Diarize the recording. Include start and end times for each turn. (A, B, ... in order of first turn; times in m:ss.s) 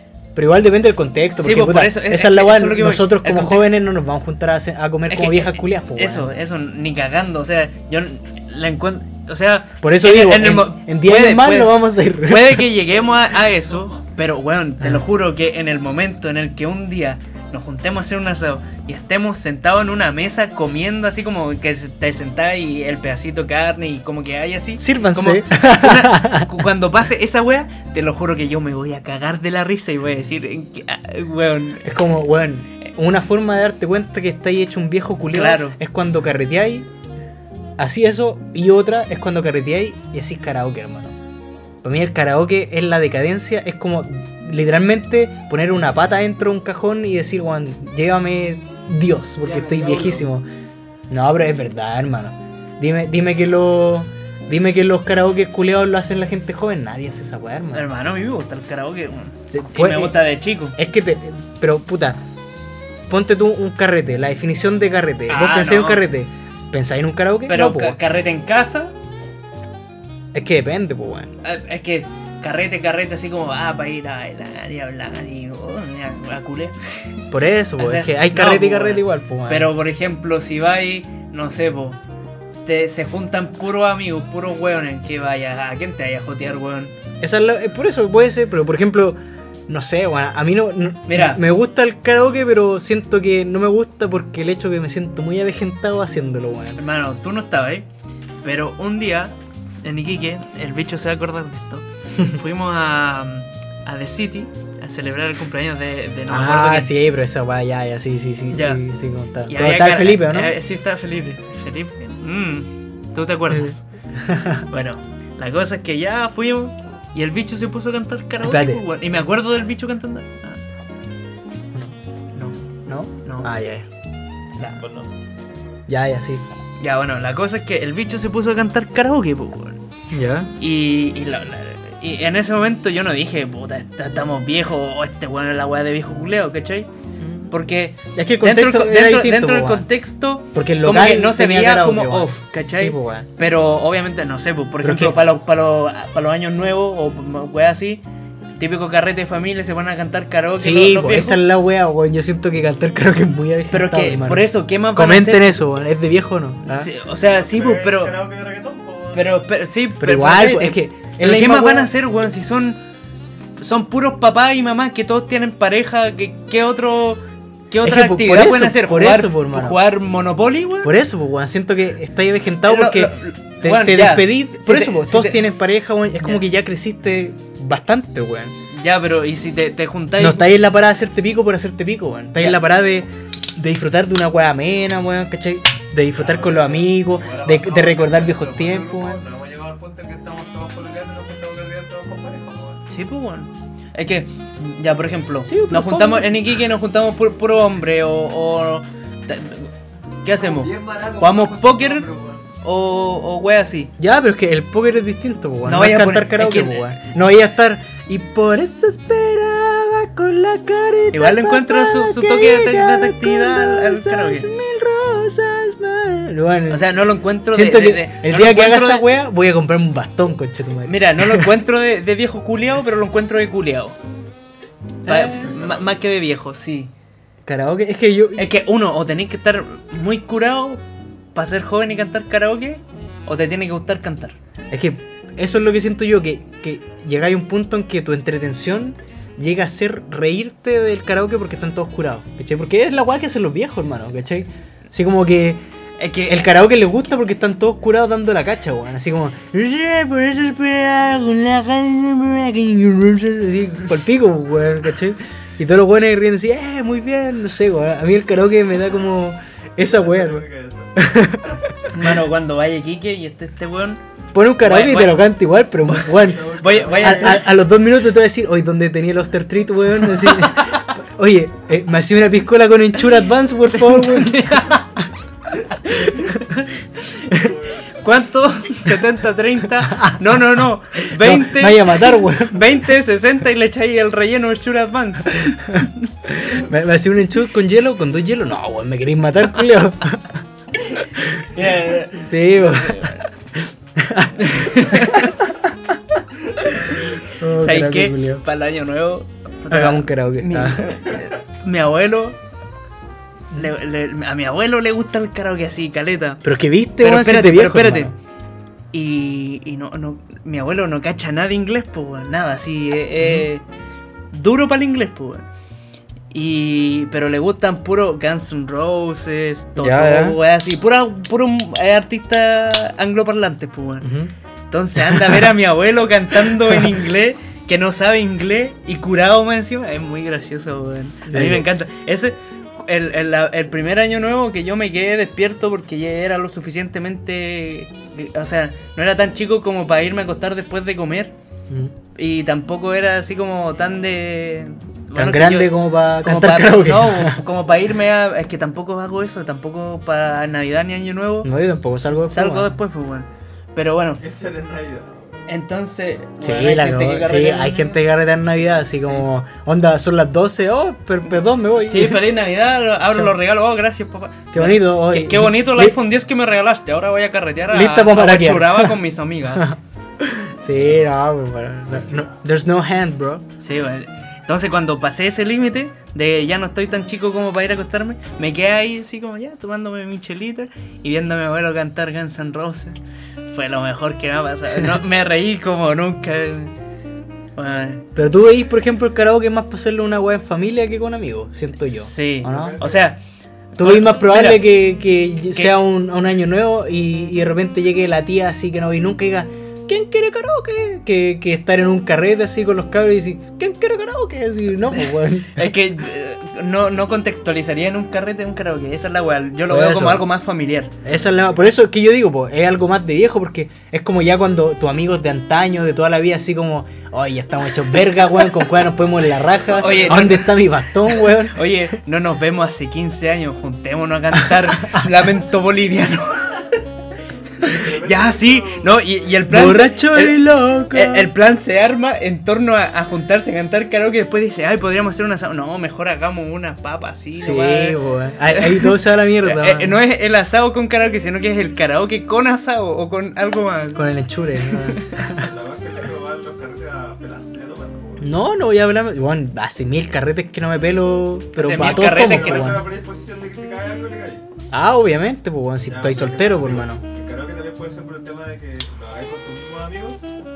0:00.3-0:06.3 A
0:01.4-0:03.7 B
0:05.1-0:32.0 B
0:09.8-0:12.7 A
0:12.9-0:14.0 C
0:24.8-0:26.5 A
0:31.8-0:36.9 A
0:35.3-0:35.8 B
0:37.8-0:41.1 A
0:41.8-0:50.5 A
0:49.4-0:50.2 C
0:51.1-0:57.8 A
0:57.7-1:00.8 B
0:59.5-1:00.2 A
1:00.8-1:02.2 A
1:03.1-1:08.0 A
1:05.3-1:06.0 B
1:07.5-1:08.9 B
1:10.3-1:11.3 A
1:11.4-1:16.7 B
1:17.3-1:19.7 A
1:17.8-1:22.0 B
1:22.6-1:26.9 B
1:27.2-1:36.8 A
1:31.1-1:31.4 B
1:36.8-1:37.8 B
1:38.4-1:46.9 B
1:46.3-1:50.5 A
1:48.5-1:48.8 B
1:49.5-1:53.8 B
1:53.5-1:54.6 A
1:54.7-2:00.6 B
1:58.4-1:58.8 A
2:02.9-2:03.9 A
2:03.2-2:03.5 B
2:04.6-2:04.8 B
2:04.7-2:05.1 C
2:05.9-2:06.4 A
2:06.8-2:09.8 B
2:10.1-2:10.5 A
2:10.6-2:16.9 B
2:17.2-2:17.5 A
2:17.5-2:28.0 B
2:18.1-2:19.9 A
2:20.5-2:23.3 A
2:24.8-2:25.2 A
2:28.6-2:31.4 B
2:30.6-2:36.9 A
2:33.7-2:35.6 B
2:36.7-2:38.1 B
2:37.1-2:39.4 C
2:39.1-2:42.8 B
2:40.0-2:41.9 A
2:43.6-2:50.9 B
2:47.8-2:49.8 A
2:50.8-2:58.6 A
2:52.6-2:55.4 B
2:58.7-3:00.5 B
3:00.2-3:09.2 A
3:06.1-3:12.8 C
3:12.9-3:19.7 B
3:15.5-3:16.6 A
3:20.2-3:22.1 B
3:20.3-3:22.5 C
3:22.6-3:23.9 B
3:24.0-3:36.8 A
3:25.6-3:27.0 B
3:31.1-3:34.5 B
3:36.7-3:39.0 B
3:37.5-3:41.5 A
3:40.8-3:44.0 B
3:45.0-3:45.3 A
3:45.0-3:46.9 B
3:45.3-3:45.8 C
3:47.4-3:48.5 A
3:48.4-3:50.8 B
3:51.3-3:54.4 B
3:54.7-4:05.6 A
4:06.0-4:06.5 B
4:06.3-4:20.4 A
4:19.9-4:21.1 C
4:21.0-4:22.2 A
4:21.9-4:24.0 B
4:24.3-4:34.8 A
4:24.6-4:25.2 B
4:25.9-4:27.5 B
4:26.0-4:27.5 C
4:30.2-4:30.9 B
4:33.7-4:35.0 B
4:36.0-4:36.7 B
4:37.3-4:37.9 C
4:38.0-4:45.8 B
4:39.8-4:42.9 A
4:45.3-4:50.4 A
4:50.9-4:53.2 B
4:52.2-4:56.2 A
4:54.4-4:55.4 B
4:56.8-4:58.4 A
4:57.6-5:02.4 B
4:59.7-5:01.0 A
5:03.5-5:06.4 B
5:06.4-5:08.1 A
5:07.0-5:08.1 B
5:08.9-5:13.6 B
5:13.2-5:13.5 A
5:14.3-5:15.4 B
5:16.3-5:24.1 B
5:19.8-5:20.4 A
5:24.0-5:24.3 A
5:24.7-5:41.3 B
5:25.0-5:25.5 A
5:26.5-5:26.9 A
5:31.3-5:31.7 A
5:41.7-5:41.9 A
5:42.1-5:51.5 B
5:45.1-5:47.4 A
5:51.4-5:52.7 A
5:52.3-5:54.2 B
5:54.2-5:55.4 C
5:55.5-5:57.9 B
5:56.4-6:02.2 A
6:01.2-6:09.7 B
6:03.1-6:03.4 A
6:04.5-6:06.0 A
6:07.7-6:09.0 A
6:09.5-6:13.4 A
6:11.9-6:12.3 C
6:13.6-6:26.7 B
6:27.6-6:28.0 B
6:28.1-6:32.8 A
6:31.8-6:33.2 B
6:32.4-6:33.1 C
6:33.8-6:34.6 B
6:33.8-6:45.7 A
6:45.5-6:50.9 B
6:49.7-6:50.3 A
6:51.0-7:01.6 A
6:59.6-7:00.4 C
6:59.7-7:06.6 B
7:04.5-7:05.0 A
7:07.6-7:09.0 C
7:08.0-7:18.0 B
7:09.5-7:11.3 A
7:17.4-7:20.0 A
7:18.5-7:24.0 B
7:23.9-7:25.5 A
7:24.7-7:25.0 B
7:25.3-7:28.3 C
7:28.2-7:32.9 A
7:31.6-7:32.8 B
7:31.7-7:34.4 C
7:34.7-7:37.0 A
7:35.9-7:40.2 C